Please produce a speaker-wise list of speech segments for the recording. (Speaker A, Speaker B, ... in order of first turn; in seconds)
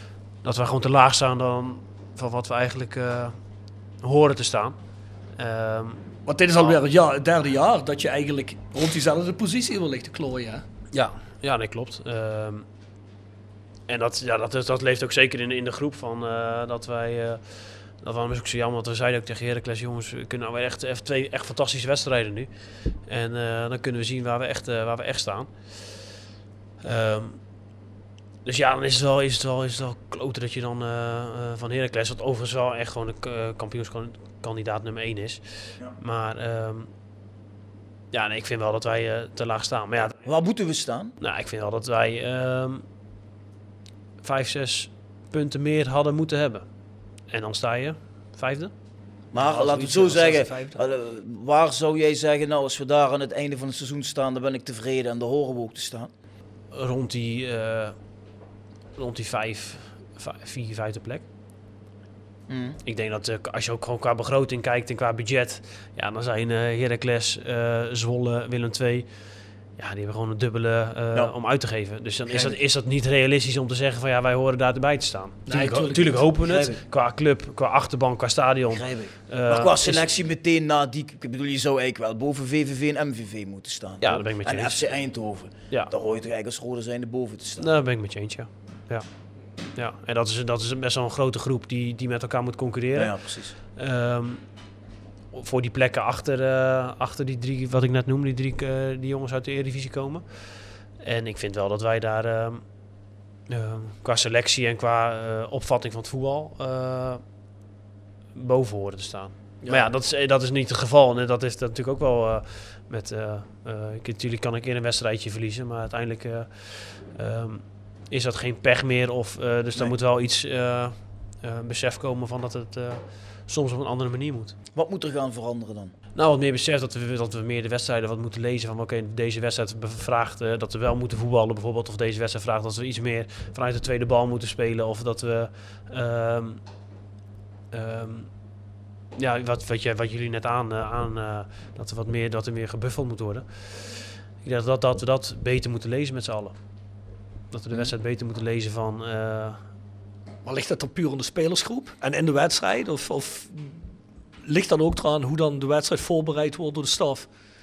Speaker A: 0.4-3.4, 4.0-4.8, 5.3-6.0, 10.9-12.7, 13.9-22.5, 23.1-25.9, 26.8-27.4, 28.4-36.9, 38.1-40.2, 41.2-42.8, 44.2-46.6, 47.3-48.7, 56.7-57.9, 59.0-61.2, 62.8-69.1, 69.8-80.0, 84.0-84.9, 87.6-89.0, 89.8-93.2, 93.8-94.4, 95.3-100.2, 101.0-102.6, 103.5-107.2, 108.3-124.6, 126.1-136.6, 137.7-138.3, 139.2-146.6, 147.5-149.6
Speaker B: 6.2-10.6, 49.4-50.8, 75.5-76.2, 109.6-109.9, 150.4-153.8, 154.4-157.3
Speaker C: 40.2-41.1, 49.3-56.1, 62.5-62.8, 72.3-72.6, 76.4-76.8, 78.7-87.7, 92.9-93.5, 124.7-125.9